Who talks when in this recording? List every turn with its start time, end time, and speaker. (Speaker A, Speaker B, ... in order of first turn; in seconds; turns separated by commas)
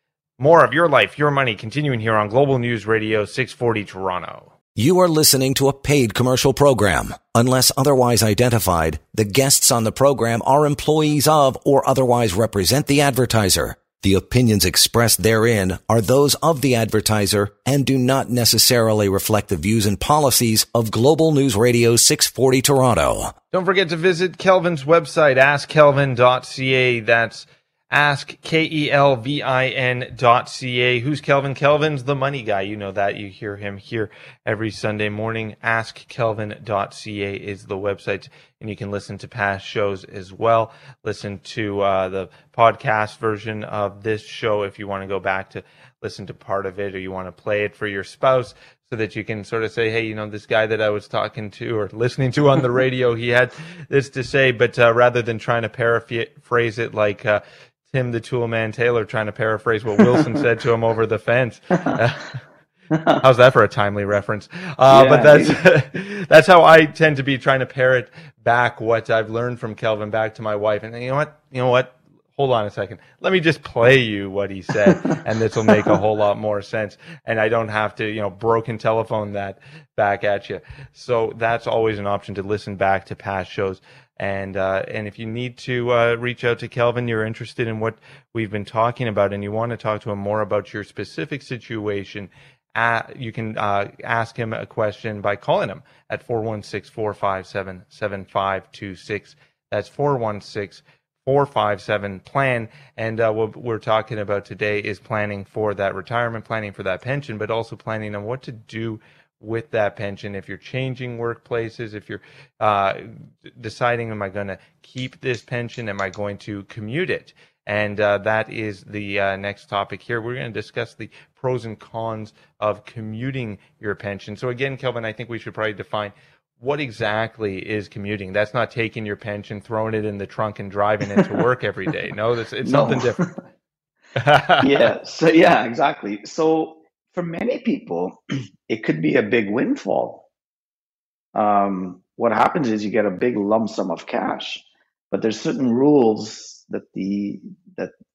Speaker A: 0.4-4.5, Speaker B: 4.8-23.4, Speaker A: 23.5-62.4, Speaker C: 62.9-63.2, Speaker A: 63.2-133.3, Speaker C: 64.9-65.6, Speaker C: 132.6-133.3, Speaker A: 134.2-134.9, Speaker C: 134.6-140.3, Speaker C: 141.3-147.9